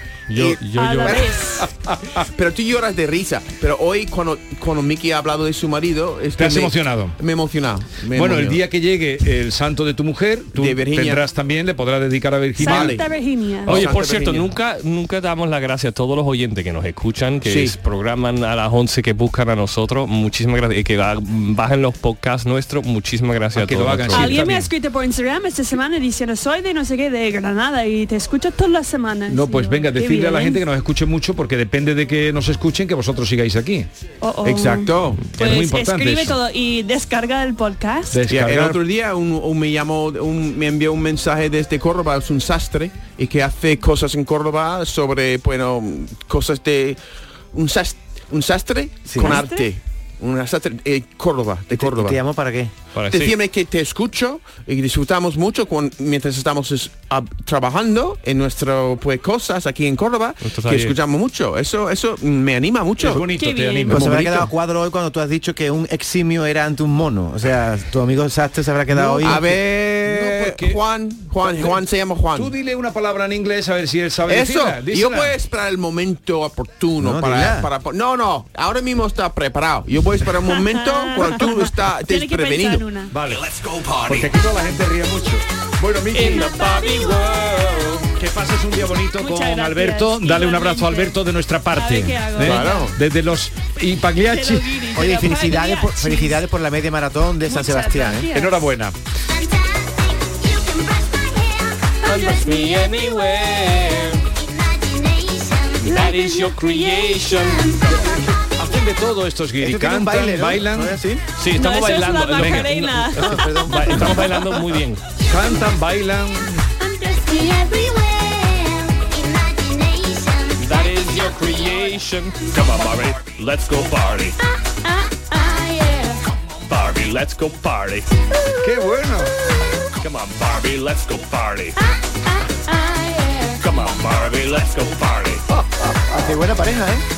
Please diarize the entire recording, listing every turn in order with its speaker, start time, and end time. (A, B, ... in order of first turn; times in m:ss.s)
0:00.3-0:01.3 A
0:00.7-0:01.7 B
0:01.8-0:02.2 C
0:02.4-0:08.6 D
0:06.4-0:07.2 C
0:08.1-0:13.0 C
0:10.5-0:11.3 D
0:12.6-0:13.9 B
0:12.6-0:13.1 D
0:13.6-0:14.5 D
0:13.7-0:24.4 A
0:17.4-0:17.8 D
0:23.6-0:24.7 C
0:24.1-0:30.6 B
0:29.3-0:33.9 C
0:34.2-0:38.2 B
0:34.4-0:35.3 D
0:35.4-0:36.4 C
0:38.1-0:38.8 C
0:38.3-0:47.0 D
0:47.5-0:52.2 D
0:49.1-0:49.4 E
0:49.2-0:49.7 B
0:51.7-0:52.7 E
0:53.0-0:53.4 A
0:53.1-1:03.3 D
1:00.5-1:01.0 A
1:03.0-1:04.0 C
1:03.3-1:04.0 B
1:03.9-1:04.5 D
1:03.9-1:09.5 E
1:08.9-1:12.5 D
1:10.0-1:10.8 C
1:11.5-1:11.7 C
1:12.4-1:15.3 C
1:14.3-1:22.8 D
1:17.0-1:17.7 E
1:20.4-1:23.1 B
1:23.1-1:23.4 C
1:24.0-1:26.5 C
1:26.2-1:28.0 A
1:26.3-1:27.8 B
1:28.2-1:34.7 C
1:29.2-1:32.9 B
1:32.4-1:32.9 D
1:34.2-1:36.4 B
1:34.9-1:38.3 E
1:37.5-1:38.7 B
1:38.3-1:39.0 C
1:42.0-1:42.8 B
1:42.0-1:44.2 A
1:45.8-1:47.8 A
1:45.8-1:47.1 B
1:47.9-1:51.0 C
1:49.6-1:51.2 E
1:51.4-1:55.0 A
1:51.5-1:53.6 B
1:53.2-1:54.2 E
1:55.2-1:56.6 C
1:56.9-1:58.0 B
2:00.6-2:04.4 A
2:06.7-2:08.1 A
2:08.6-2:09.3 C
2:10.0-2:11.8 A
2:13.6-2:15.4 A
2:16.1-2:17.0 E